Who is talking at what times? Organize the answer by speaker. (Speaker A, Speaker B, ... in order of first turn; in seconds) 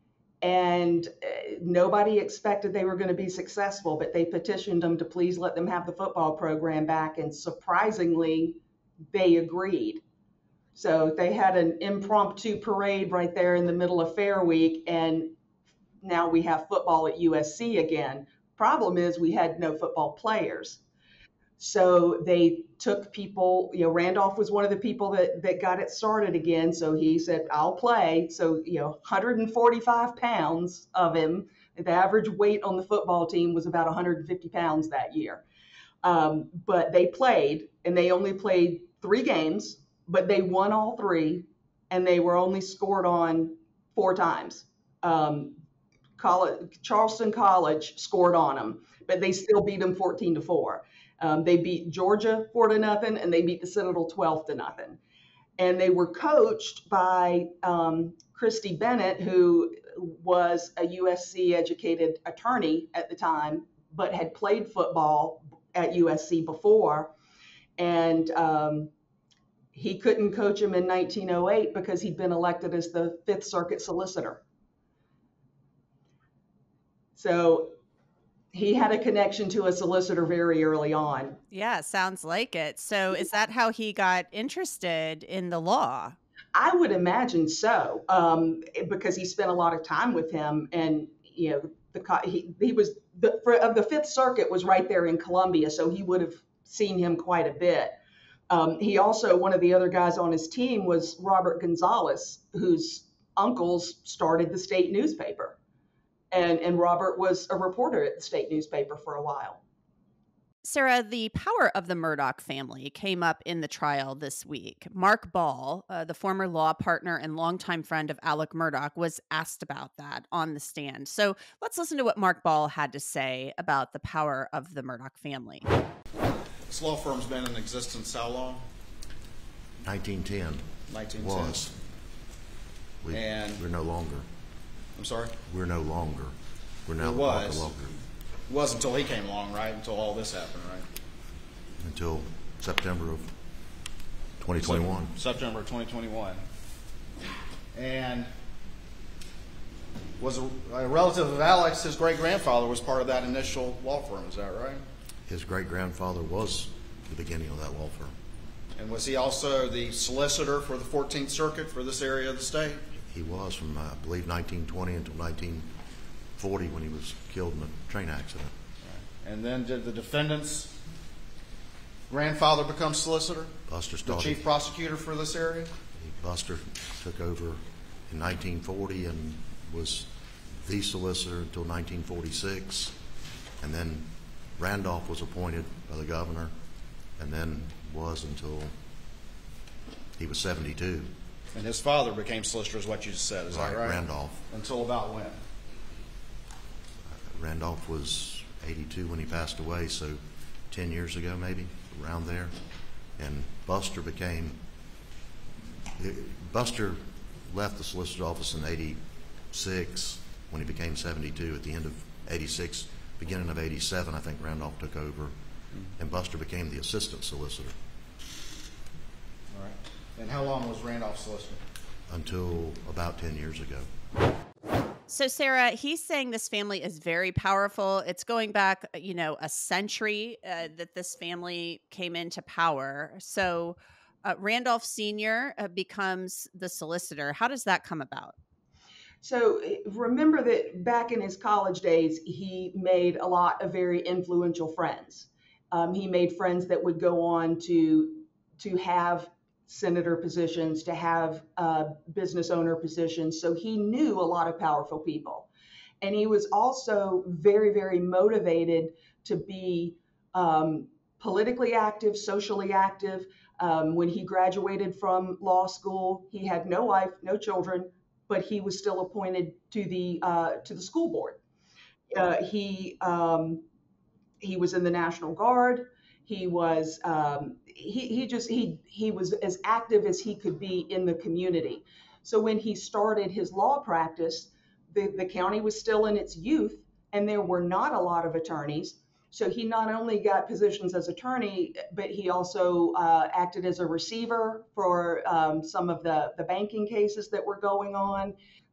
Speaker A: 0.4-8.6, 9.1-10.0, 10.7-15.3, 16.0-20.8, 21.6-35.4, 36.0-45.6, 46.2-55.0, 55.6-67.1, 67.8-68.9, 69.7-74.4, 77.2-77.8, 78.5-81.4, 86.5-98.0, 98.5-105.6, 106.3-109.6, 239.2-255.5, 256.0-271.4, 272.1-273.6, 274.4-298.4
Speaker B: 81.5-86.2, 110.6-125.7, 225.1-238.4
Speaker C: 126.7-128.6, 130.9-131.7, 133.1-133.6, 134.9-135.4, 137.0-137.8, 138.5-140.9, 144.6-146.4, 147.7-148.3, 150.2-154.8, 158.8-162.8, 168.8-170.8, 172.1-175.7, 191.5-195.4, 219.5-221.6
Speaker D: 129.8-131.8, 133.0-134.3, 135.5-136.3, 136.9-137.9, 141.8-143.3, 144.4-145.1, 155.3-158.1, 163.0-165.7, 166.3-168.5, 173.7-174.4, 176.0-183.0, 183.6-186.5, 187.2-188.7, 190.2-191.1, 193.5-194.4, 197.1-202.5, 203.2-204.6, 206.0-215.3, 216.0-217.7, 222.1-223.9